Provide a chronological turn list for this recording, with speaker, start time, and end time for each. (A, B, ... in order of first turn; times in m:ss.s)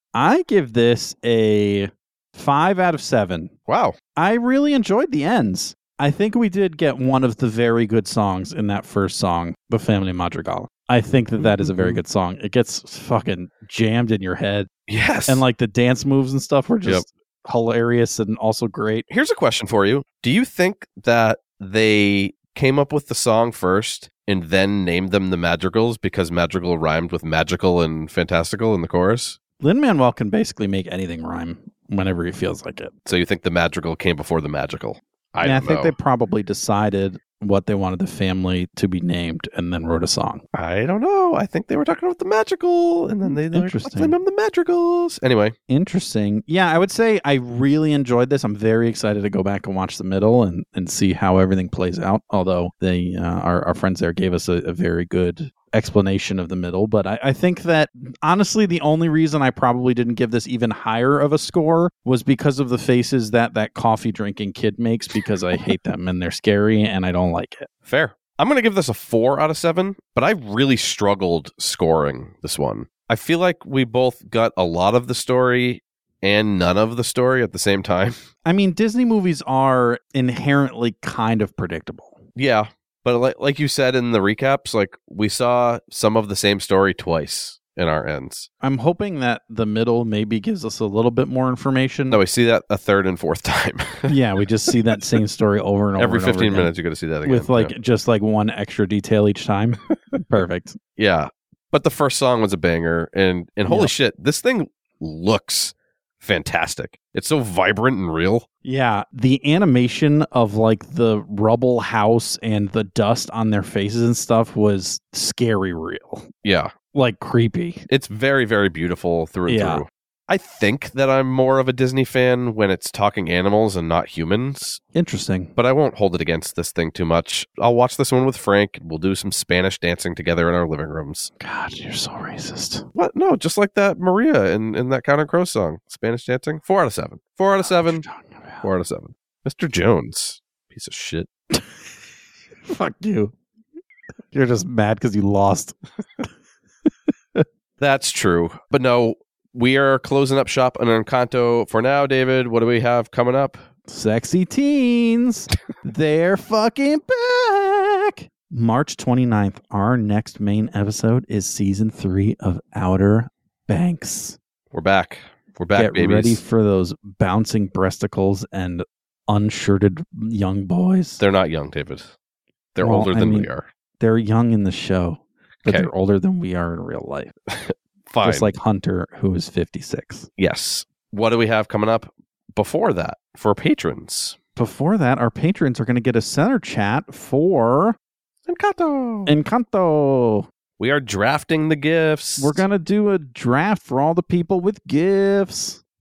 0:00.1-0:03.5 A
0:03.7-0:04.0 B
0:04.1-0:14.7 A
0:11.4-0:12.0 B
0:14.9-0:15.4 B
0:15.2-0:19.0 A
0:19.1-0:29.4 B
0:29.6-0:32.9 A
0:33.0-0:35.9 B
0:35.4-0:40.4 A
0:40.5-0:45.6 B
0:43.2-0:44.2 A
0:45.7-1:07.7 A
1:07.8-1:18.2 B
1:18.4-1:22.2 A
1:22.4-1:28.5 B
1:28.6-1:32.2 A
1:32.1-1:34.1 B
1:34.1-1:36.7 A
1:36.0-1:37.7 B
1:37.2-1:40.8 A
1:41.0-1:48.4 B
1:43.6-1:43.9 A
1:48.6-1:56.3 A
1:56.4-1:56.7 B
1:56.9-1:57.8 A
1:57.9-2:04.8 B
1:59.5-1:59.8 A
2:04.9-2:05.5 A
2:05.6-2:11.3 B
2:11.4-2:12.8 A
2:12.9-2:18.0 B
2:17.6-2:18.6 A
2:18.6-2:21.3 B
2:22.6-2:23.3 A
2:24.3-2:26.3 A
2:27.8-2:33.6 B
2:33.9-2:44.4 A
2:44.7-2:46.4 B
2:45.7-2:51.2 A
2:51.2-2:52.1 B
2:52.7-2:53.6 B
2:52.8-2:53.5 A
2:54.0-2:57.3 A
2:55.6-2:55.9 B
2:57.5-2:58.5 B
2:58.2-3:00.3 A
3:00.4-3:04.4 B
3:04.6-3:08.0 A
3:08.4-3:09.3 B
3:09.2-3:10.5 A
3:10.8-3:12.6 B
3:12.4-3:15.8 A